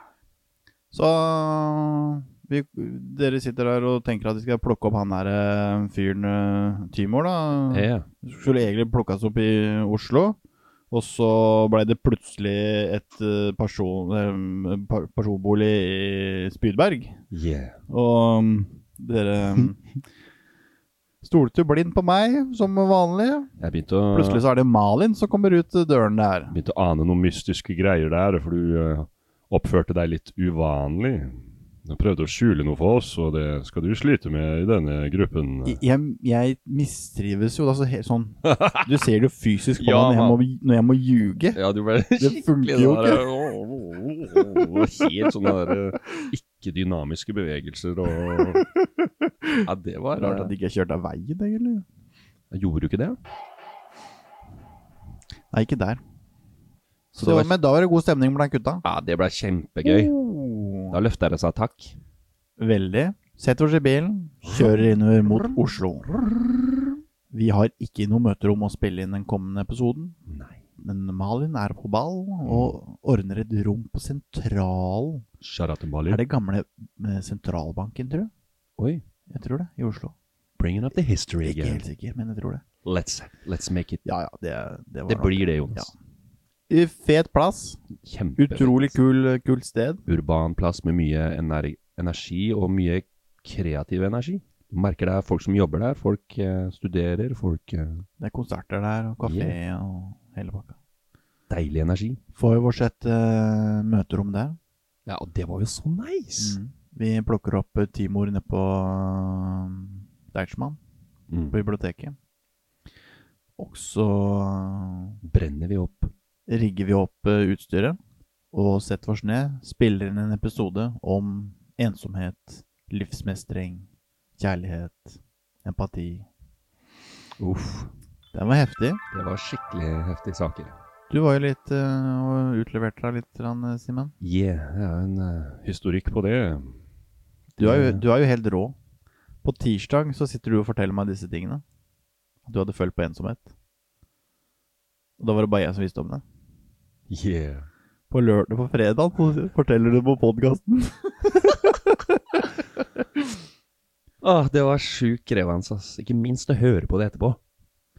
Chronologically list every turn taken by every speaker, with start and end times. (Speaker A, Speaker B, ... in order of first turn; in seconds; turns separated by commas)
Speaker A: 0.9-10.4, Speaker B: 7.7-8.1, Speaker A: 10.9-17.2, Speaker B: 17.3-17.8, Speaker A: 17.9-19.8, Speaker A: 21.2-23.5, Speaker B: 23.6-24.4, Speaker A: 24.1-26.6, Speaker B: 26.5-35.8, Speaker A: 35.6-41.6, Speaker B: 38.4-38.9, Speaker B: 39.8-40.4, Speaker B: 41.5-48.7, Speaker A: 42.2-43.4, Speaker A: 44.4-44.8, Speaker A: 49.3-49.6, Speaker B: 49.6-50.5, Speaker A: 50.2-51.8, Speaker B: 52.5-53.2, Speaker A: 55.5-56.0, Speaker B: 57.1-57.5, Speaker A: 57.2-58.8, Speaker B: 58.8-60.1, Speaker A: 59.8-61.0, Speaker B: 60.9-62.0, Speaker A: 62.6-66.2, Speaker B: 64.4-65.6, Speaker A: 67.3-70.2, Speaker B: 70.3-70.6, Speaker A: 70.8-75.2, Speaker B: 72.5-72.7, Speaker B: 75.4-76.2, Speaker A: 76.1-78.3, Speaker B: 78.8-79.0, Speaker A: 79.3-80.1, Speaker B: 80.6-81.8, Speaker A: 81.4-82.6, Speaker B: 82.8-84.0, Speaker A: 84.0-85.9, Speaker B: 85.1-85.9, Speaker A: 86.7-87.8, Speaker B: 88.0-88.9, Speaker A: 88.4-90.0, Speaker B: 90.0-98.0, Speaker A: 98.2-100.7, Speaker B: 99.2-99.5, Speaker B: 101.5-102.2, Speaker A: 102.3-104.6, Speaker B: 105.0-106.6, Speaker A: 106.4-110.8, Speaker B: 111.3-111.6, Speaker A: 111.5-112.2, Speaker A: 113.6-115.2, Speaker B: 115.2-116.1, Speaker A: 116.5-118.0, Speaker A: 118.5-123.9, Speaker A: 124.4-126.2, Speaker B: 127.4-127.9, Speaker A: 128.3-129.0, Speaker B: 129.1-130.7, Speaker A: 131.1-134.1, Speaker B: 134.2-136.8, Speaker A: 137.6-138.8, Speaker B: 137.6-138.0, Speaker A: 139.4-141.6, Speaker A: 142.4-143.5, Speaker A: 145.2-146.2, Speaker B: 147.1-147.7, Speaker A: 148.1-152.4, Speaker B: 154.2-157.4